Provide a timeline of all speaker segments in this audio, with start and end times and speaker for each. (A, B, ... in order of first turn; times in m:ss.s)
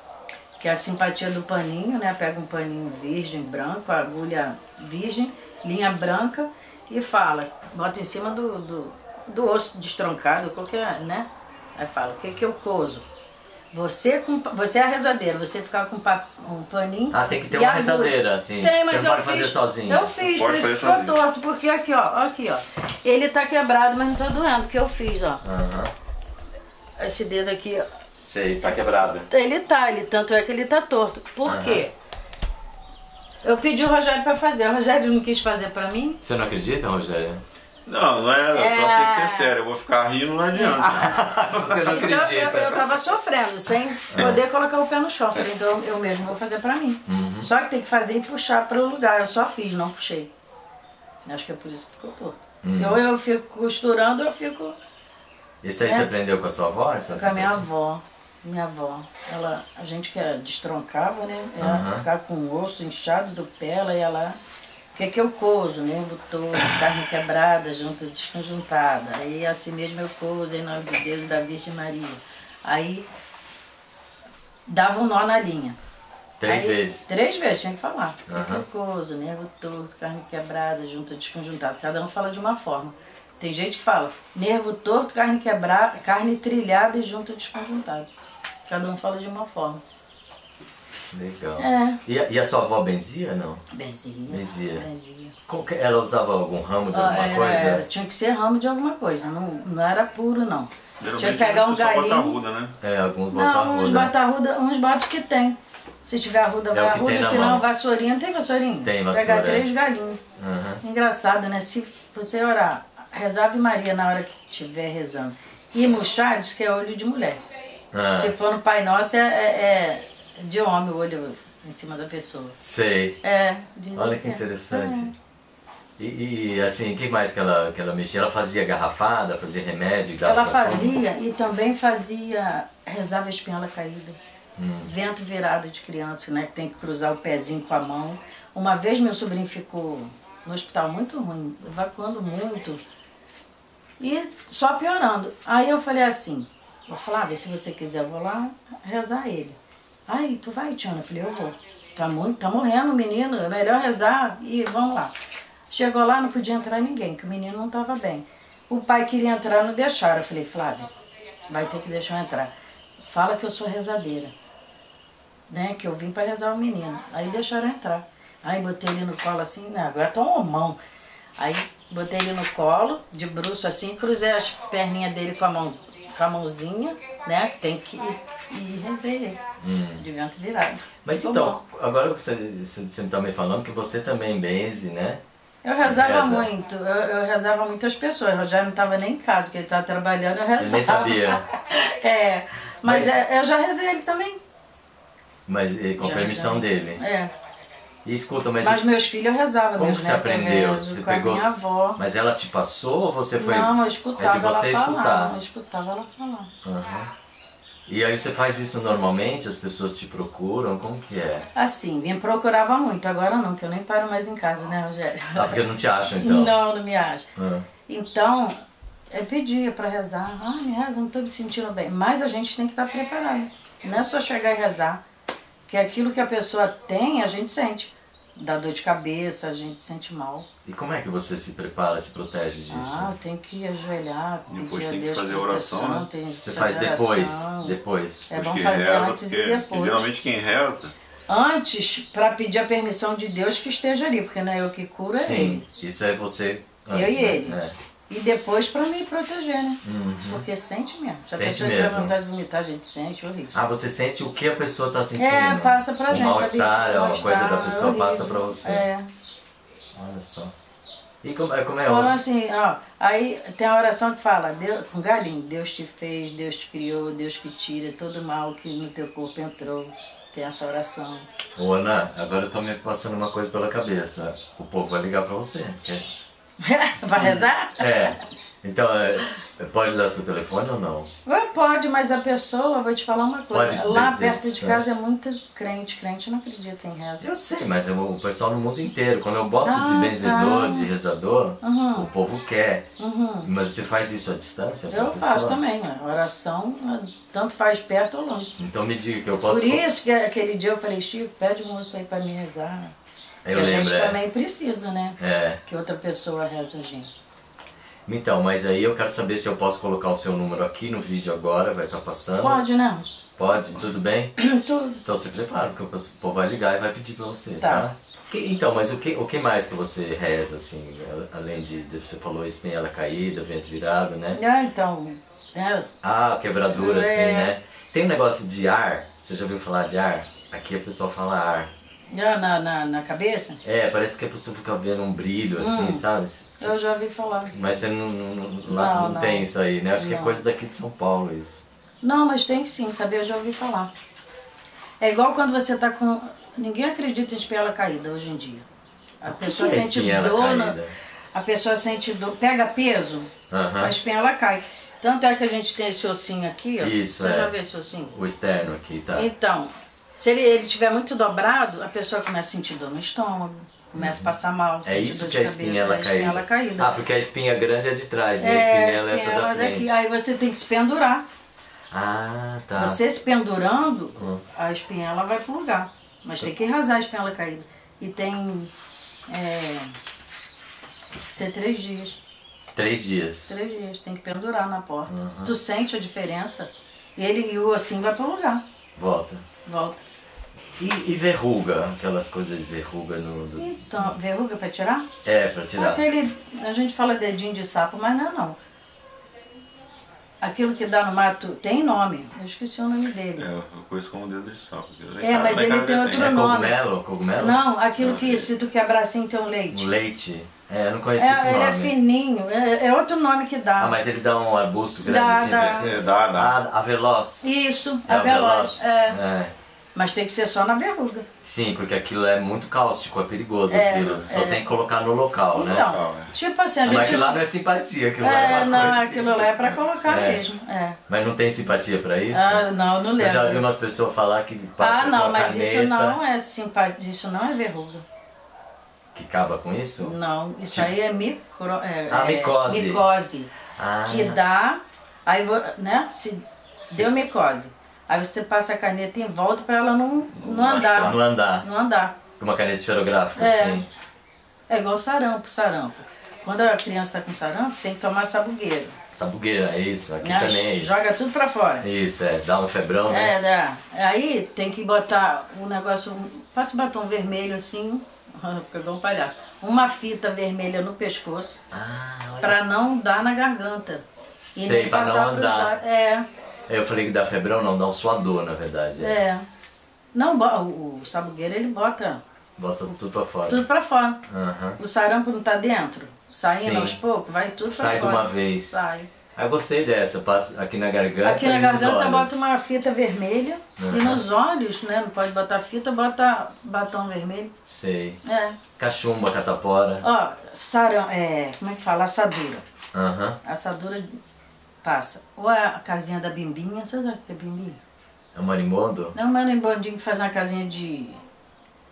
0:00.6-0:13.1 A
0:13.7-0:25.4 A
0:17.1-0:20.1 B
0:20.2-0:21.2 C
0:25.4-0:25.9 B
0:27.0-0:27.9 A
0:28.2-0:29.3 B
0:29.3-0:31.9 A
0:31.4-0:31.8 B
0:33.4-0:36.2 A
0:36.2-0:37.4 B
0:37.9-0:42.1 C
0:38.5-0:39.5 A
0:40.6-0:40.8 A
0:40.8-0:42.8 B
0:41.8-0:50.3 A
0:44.1-0:44.4 B
0:47.1-0:47.5 B
0:51.3-0:54.8 A
0:52.6-0:53.0 B
0:55.6-0:57.6 B
0:55.8-0:56.1 A
0:57.1-1:04.4 A
1:01.6-1:02.1 B
1:05.0-1:13.1 A
1:14.7-1:15.8 A
1:16.4-1:17.0 B
1:16.4-1:28.1 A
1:18.3-1:18.6 B
1:28.7-1:29.8 A
1:31.1-1:33.6 B
1:31.6-1:32.0 A
1:33.7-1:35.4 A
1:34.3-1:34.9 B
1:35.5-1:37.8 B
1:36.9-1:42.4 A
1:41.0-1:42.8 C
1:42.8-1:44.1 B
1:43.3-1:50.2 A
1:46.7-1:47.7 B
1:48.8-1:49.7 B
1:50.4-1:50.8 B
1:50.8-1:57.4 A
1:57.9-1:58.4 B
1:58.2-2:02.6 A
2:02.6-2:03.2 B
2:03.2-2:05.1 A
2:04.0-2:05.1 B
2:06.0-2:11.0 B
2:10.2-2:14.2 A
2:14.6-2:14.9 B
2:14.8-2:22.8 A
2:24.0-2:35.2 A
2:35.7-2:40.9 A
2:41.5-2:42.5 A
2:43.1-2:44.3 A
2:45.5-2:50.8 A
2:51.4-2:59.4 A
2:59.6-3:00.0 B
3:00.0-3:01.6 A
3:01.0-3:05.2 B
3:05.6-3:14.4 A
3:05.8-3:06.5 B
3:10.6-3:11.4 B
3:12.8-3:13.2 B
3:15.5-3:17.0 B
3:16.0-3:17.3 A
3:18.0-3:18.8 B
3:18.6-3:22.0 A
3:19.8-3:25.4 B
3:23.4-3:26.5 A
3:26.6-3:27.1 B
3:27.9-3:31.5 B
3:31.6-3:35.6 A
3:35.4-3:36.6 B
3:36.2-3:37.3 A
3:37.4-3:37.7 B
3:37.9-3:45.0 A
3:45.7-3:50.5 A
3:50.6-3:53.1 B
3:52.7-3:57.8 A
3:54.5-3:56.1 C
3:56.3-3:58.3 B
3:58.3-4:00.0 A
3:58.3-4:00.9 C
4:01.3-4:05.6 A
4:05.2-4:07.8 B
4:06.9-4:07.6 A
4:08.1-4:13.5 A
4:09.8-4:10.4 B
4:11.3-4:12.2 B
4:13.5-4:18.8 B
4:15.2-4:19.1 A
4:19.9-4:20.5 B
4:21.2-4:22.2 B
4:21.8-4:31.3 A
4:31.6-4:36.1 B
4:36.6-4:38.1 A
4:37.2-4:41.1 B
4:41.2-4:47.2 A
4:43.5-4:45.0 B
4:47.2-4:52.9 B
4:49.6-4:50.9 A
4:51.6-4:52.1 A
4:53.0-4:53.5 A
4:53.4-4:55.6 B
4:54.9-4:58.6 A
4:58.6-4:59.8 B
4:59.5-5:02.9 A
5:03.4-5:04.2 B
5:03.5-5:07.1 A
5:05.2-5:05.6 B
5:08.1-5:12.6 B
5:12.4-5:13.2 A
5:13.4-5:14.4 B
5:14.4-5:15.0 A
5:15.0-5:24.4 B
5:17.6-5:17.9 A
5:24.3-5:25.9 A
5:26.0-5:31.7 B
5:26.7-5:27.5 A
5:32.1-5:33.6 A
5:33.6-5:36.8 B
5:35.6-5:36.0 A
5:36.6-5:37.6 A
5:37.5-5:41.6 B
5:38.7-5:40.4 A
5:42.0-5:43.9 A
5:45.0-5:48.6 A
5:49.2-5:50.8 A
5:49.2-5:50.9 B
5:51.3-5:58.1 A
5:53.5-5:54.0 B
5:56.8-5:57.5 B
5:58.1-5:59.3 B
5:59.2-6:07.0 A
6:04.0-6:10.0 B
6:08.4-6:11.2 A
6:11.9-6:13.0 B
6:12.8-6:18.7 A
6:14.2-6:14.4 B
6:19.3-6:19.9 A
6:21.3-6:22.2 A
6:22.8-6:23.5 B
6:23.5-6:28.6 A
6:25.1-6:25.6 B
6:29.0-6:29.4 B
6:29.6-6:30.0 A
6:30.8-6:34.1 B
6:33.6-6:35.1 A
6:35.2-6:36.0 B
6:35.8-6:38.6 A
6:40.4-6:43.5 A
6:43.4-6:46.3 C
6:45.2-6:46.8 A
6:46.1-6:47.6 B
6:47.4-6:49.9 A
6:48.0-6:48.4 C
6:49.7-6:51.9 B
6:51.2-6:54.0 A
6:53.8-6:57.5 B
6:55.0-6:55.9 A
6:55.7-6:56.5 C
6:57.4-6:59.2 A
6:58.1-6:59.5 B
7:00.0-7:01.3 A
7:01.4-7:05.9 B
7:03.7-7:04.6 A
7:05.5-7:07.4 A
7:05.8-7:06.3 C
7:06.8-7:10.4 B
7:08.2-7:11.0 A
7:11.1-7:12.6 B
7:12.3-7:13.6 A
7:13.2-7:16.2 B
7:14.8-7:18.0 A
7:19.2-7:20.2 B
7:20.0-7:23.5 A
7:22.1-7:23.0 B
7:23.8-7:24.4 B
7:24.1-7:32.2 A
7:30.4-7:31.2 C
7:30.8-7:31.7 B
7:32.4-7:33.9 B
7:33.4-7:33.8 A
7:34.7-7:39.0 A
7:39.1-7:41.0 B
7:40.2-7:41.9 A
7:41.8-7:43.4 B
7:43.1-7:51.6 A
7:51.7-7:52.7 B
7:52.4-7:54.0 A
7:54.6-7:55.8 B
7:54.6-7:56.3 A
7:56.7-7:59.2 B
7:59.0-7:59.5 A
8:00.1-8:02.2 A
8:02.6-8:03.7 B
8:03.5-8:04.2 A
8:04.3-8:04.8 B
8:04.8-8:09.1 A
8:06.5-8:07.0 B
8:07.7-8:08.8 B
8:09.4-8:12.4 B
8:11.2-8:17.5 A
8:13.8-8:14.2 B
8:17.7-8:18.2 B
8:18.2-8:18.6 A
8:18.8-8:20.0 B
8:20.0-8:22.6 A
8:22.9-8:23.4 B
8:23.4-8:24.2 A
8:24.8-8:27.8 A
8:28.4-8:29.2 B
8:29.1-8:31.2 A